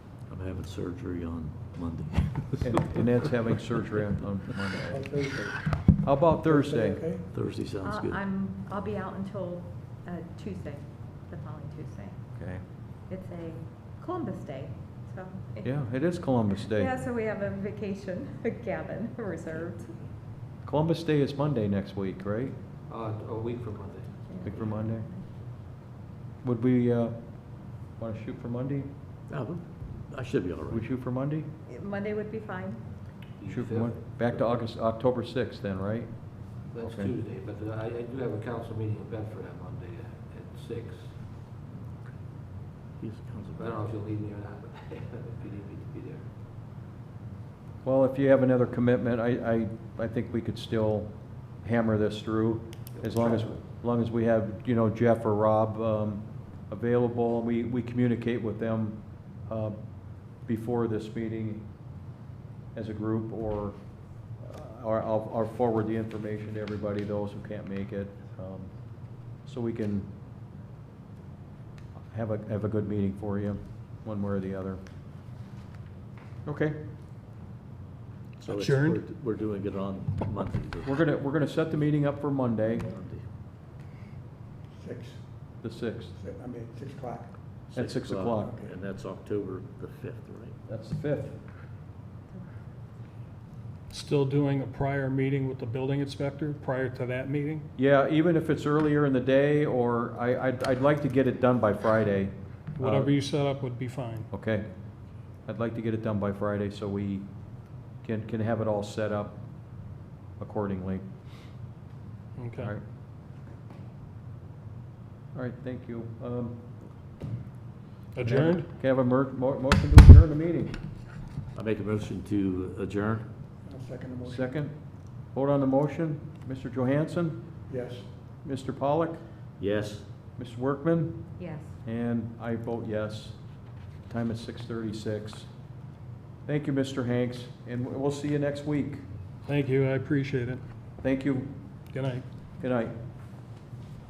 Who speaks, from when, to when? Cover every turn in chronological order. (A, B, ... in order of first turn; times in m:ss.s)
0:00.2-0:03.0 A
0:02.6-0:05.2 B
0:04.9-0:05.8 C
0:05.9-0:07.1 B
0:06.4-0:07.3 C
0:07.3-0:08.2 A
0:07.6-0:20.0 D
0:12.4-0:12.6 B
0:15.6-0:16.9 B
0:20.6-0:22.6 B
0:22.9-0:24.2 E
0:24.3-0:25.3 D
0:24.4-0:25.1 B
0:26.4-0:28.9 B
0:29.3-0:30.9 A
0:30.7-0:31.5 B
0:31.7-0:33.0 D
0:33.4-0:34.4 E
0:33.5-0:37.2 B
0:36.7-0:41.2 E
0:42.8-0:43.8 A
0:43.6-0:46.2 E
0:47.8-1:01.7 B
0:53.0-0:53.6 E
1:02.7-1:10.1 B
1:12.1-1:14.8 B
1:16.4-1:16.8 B
1:18.4-1:21.0 A
1:18.5-1:19.0 F
1:20.8-1:22.9 B
1:22.9-1:23.3 A
1:24.8-1:25.6 C
1:25.6-1:26.2 B
1:26.2-1:27.6 C
1:27.7-1:28.6 B
1:27.7-1:30.6 A
1:28.4-1:28.7 C
1:30.7-1:31.4 B
1:33.9-1:37.7 F
1:37.8-1:43.1 B
1:42.8-1:44.3 F
1:44.3-1:51.5 B
1:52.4-1:52.7 F
1:52.6-1:52.8 B
1:55.3-1:57.0 B
1:58.1-1:58.7 F
1:58.2-2:00.8 B
2:01.5-2:03.3 A
2:03.6-2:04.5 C
2:04.2-2:07.6 B
2:07.7-2:08.1 C
2:08.4-2:09.3 B
2:09.6-2:10.1 A
2:10.4-2:15.5 B
2:11.4-2:11.8 D
2:16.4-2:19.1 B
2:19.4-2:20.6 F
2:21.0-2:21.8 B
2:21.9-2:22.3 F
2:22.6-2:23.0 B